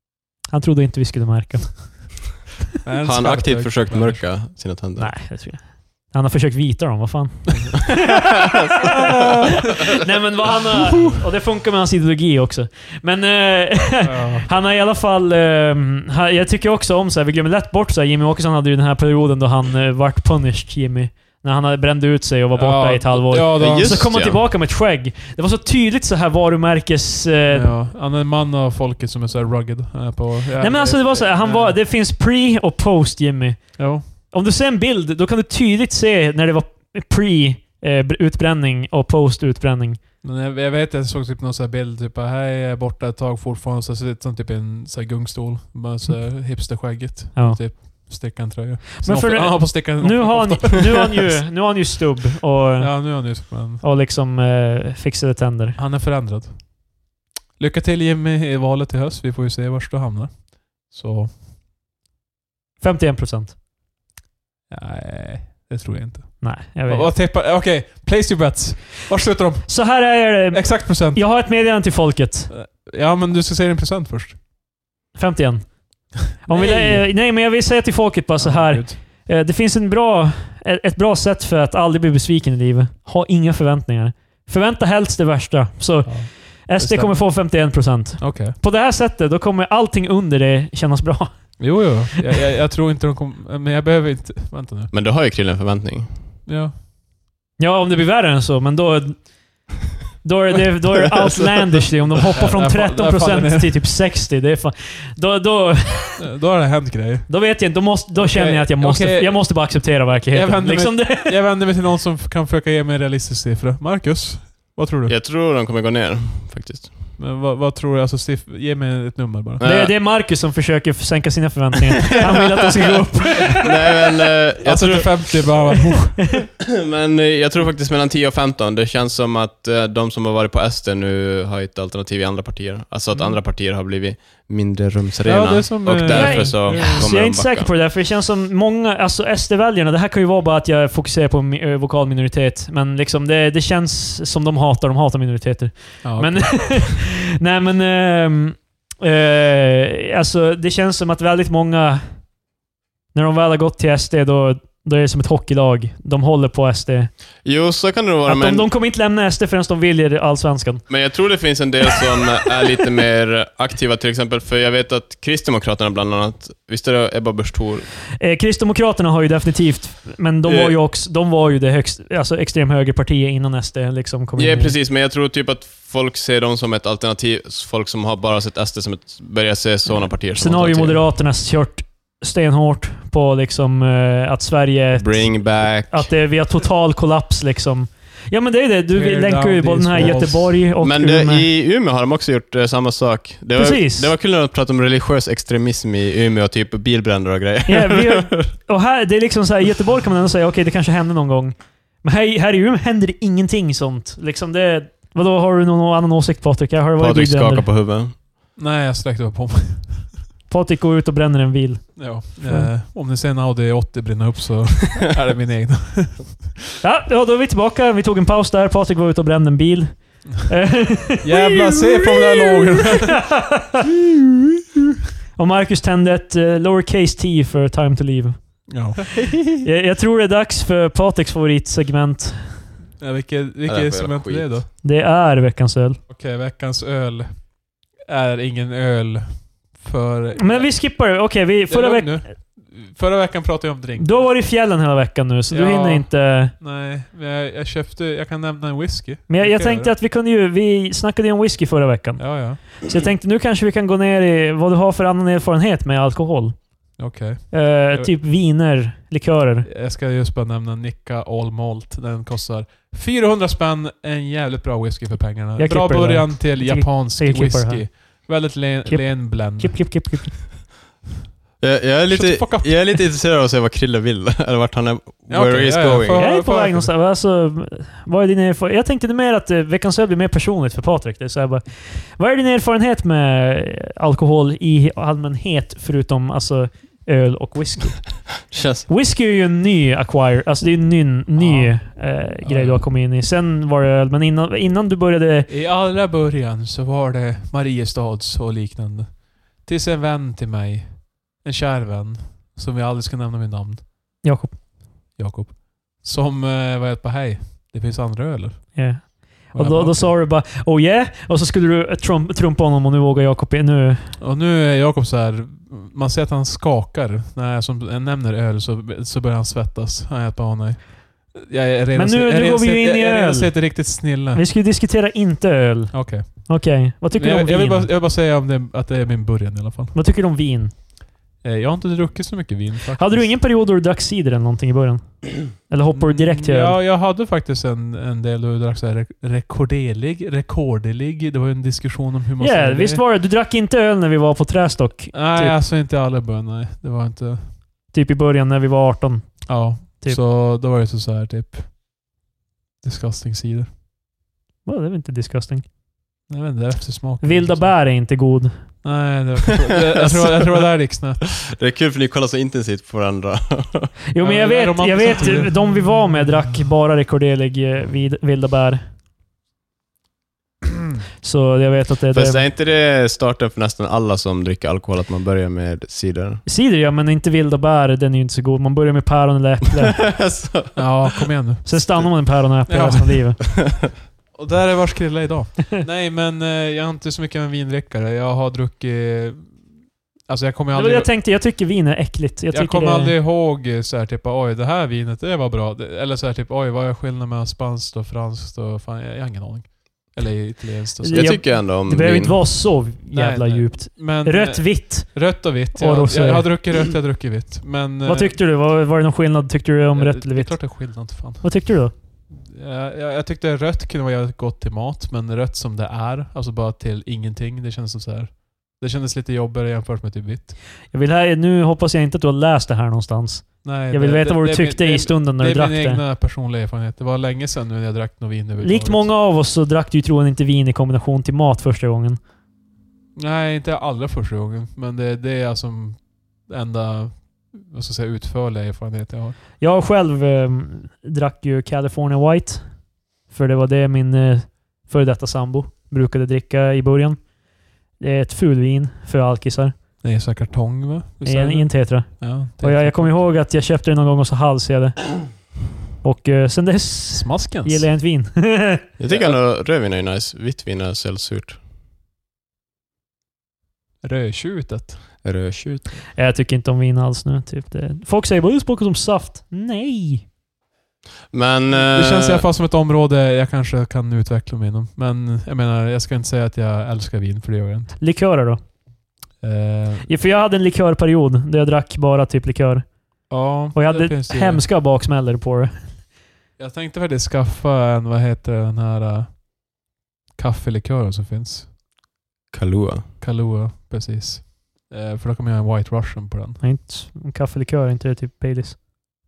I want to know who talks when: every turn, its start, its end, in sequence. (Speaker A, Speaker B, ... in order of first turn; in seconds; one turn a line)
Speaker A: 0.5-2.2
Speaker B: 2.8-4.4
Speaker C: 3.0-5.2
Speaker A: 5.0-9.1
Speaker A: 9.6-27.8
Speaker B: 14.0-14.5
Speaker B: 22.6-24.1
Speaker C: 23.5-24.4
Speaker B: 27.5-31.8
Speaker A: 30.6-40.0
Speaker B: 33.8-34.1
Speaker B: 40.2-51.4
Speaker A: 46.0-46.8
Speaker A: 47.3-47.8
Speaker A: 49.0-55.8
Speaker B: 52.8-53.8
Speaker B: 55.8-57.0
Speaker B: 57.6-61.4
Speaker A: 62.8-63.6
Speaker B: 64.7-71.3
Speaker A: 66.4-67.1
Speaker A: 69.7-72.5
Speaker B: 72.5-74.4
Speaker A: 75.2-92.0
Speaker B: 76.4-77.1
Speaker B: 78.4-79.0
Speaker B: 86.0-88.6
Speaker B: 91.6-94.9
Speaker C: 94.9-96.2
Speaker B: 96.5-96.8
Speaker A: 97.6-106.2
Speaker B: 101.3-101.8
Speaker B: 102.4-103.8
Speaker B: 106.2-107.4
Speaker A: 107.3-111.4
Speaker B: 108.2-115.2
Speaker C: 115.1-117.0
Speaker B: 117.2-119.6
Speaker C: 119.6-119.9
Speaker A: 119.6-123.7
Speaker C: 122.2-123.0
Speaker C: 123.6-125.7
Speaker B: 124.6-126.4
Speaker C: 126.6-137.7
Speaker B: 133.1-133.4
Speaker B: 135.2-137.1
Speaker A: 136.1-152.3
Speaker B: 146.0-146.9
Speaker A: 153.1-157.2
Speaker C: 157.4-158.7
Speaker A: 158.3-161.1
Speaker C: 160.9-167.9
Speaker A: 168.2-174.8
Speaker C: 170.4-170.8
Speaker C: 174.4-181.0
Speaker A: 180.3-191.5
Speaker C: 185.0-186.1
Speaker B: 188.9-190.7
Speaker C: 190.8-198.5
Speaker A: 193.6-194.1
Speaker A: 197.7-207.7
Speaker C: 207.0-208.2
Speaker B: 208.6-210.2
Speaker A: 210.5-212.7
Speaker B: 212.0-216.6
Speaker A: 216.8-223.8
Speaker B: 221.2-224.3
Speaker A: 225.3-229.0
Speaker B: 228.7-229.6
Speaker A: 229.6-232.7
Speaker B: 233.0-234.7
Speaker C: 233.7-234.5
Speaker A: 234.8-236.0
Speaker B: 236.1-244.3
Speaker A: 240.4-242.3
Speaker A: 244.0-246.5
Speaker B: 245.5-249.9
Speaker A: 249.3-257.0
Speaker B: 252.2-252.6
Speaker B: 257.0-258.1
Speaker A: 257.5-259.7
Speaker B: 259.6-270.4
Speaker A: 265.6-268.3
Speaker A: 268.9-270.5
Speaker C: 271.6-276.2
Speaker B: 272.1-273.0
Speaker B: 275.3-276.9
Speaker A: 276.2-295.5
Speaker C: 288.5-288.9
Speaker B: 291.4-292.9
Speaker B: 295.5-303.9
Speaker A: 304.2-304.6
Speaker B: 305.1-310.2
Speaker A: 308.8-314.2
Speaker B: 314.2-324.5
Speaker A: 321.9-327.9
Speaker B: 325.9-330.0
Speaker A: 329.9-330.8
Speaker B: 331.4-333.4
Speaker A: 333.0-336.8
Speaker B: 335.9-343.0
Speaker A: 342.4-345.6
Speaker B: 345.1-347.6
Speaker A: 347.9-350.2
Speaker B: 349.5-352.2
Speaker B: 352.8-353.7
Speaker A: 354.6-355.7
Speaker B: 356.3-358.2
Speaker A: 357.2-358.8
Speaker B: 358.8-361.3
Speaker C: 360.0-363.9
Speaker A: 364.1-368.8
Speaker B: 364.2-366.3
Speaker A: 371.2-372.5
Speaker C: 372.1-376.4
Speaker A: 376.4-380.1
Speaker C: 380.0-381.1
Speaker B: 380.8-383.6
Speaker A: 381.6-383.4
Speaker B: 384.3-391.1
Speaker A: 390.7-393.1
Speaker B: 392.5-401.3
Speaker A: 401.0-406.7
Speaker C: 401.1-402.4
Speaker B: 403.1-408.4
Speaker A: 408.1-411.9
Speaker B: 409.9-420.6
Speaker A: 420.9-426.0
Speaker B: 423.6-429.1
Speaker A: 428.6-432.2
Speaker B: 433.2-439.4
Speaker A: 439.6-449.8
Speaker B: 450.0-453.3
Speaker A: 451.2-458.8
Speaker B: 457.1-457.9
Speaker C: 459.0-461.6
Speaker B: 459.1-459.4
Speaker B: 464.0-465.2
Speaker C: 465.2-466.1
Speaker A: 466.2-470.3
Speaker C: 471.3-472.5
Speaker B: 471.7-478.0
Speaker A: 478.0-478.6
Speaker B: 479.4-480.1
Speaker A: 480.1-485.9
Speaker B: 483.3-484.6
Speaker B: 486.6-491.7
Speaker C: 492.5-493.1
Speaker B: 493.2-496.6
Speaker A: 496.6-498.8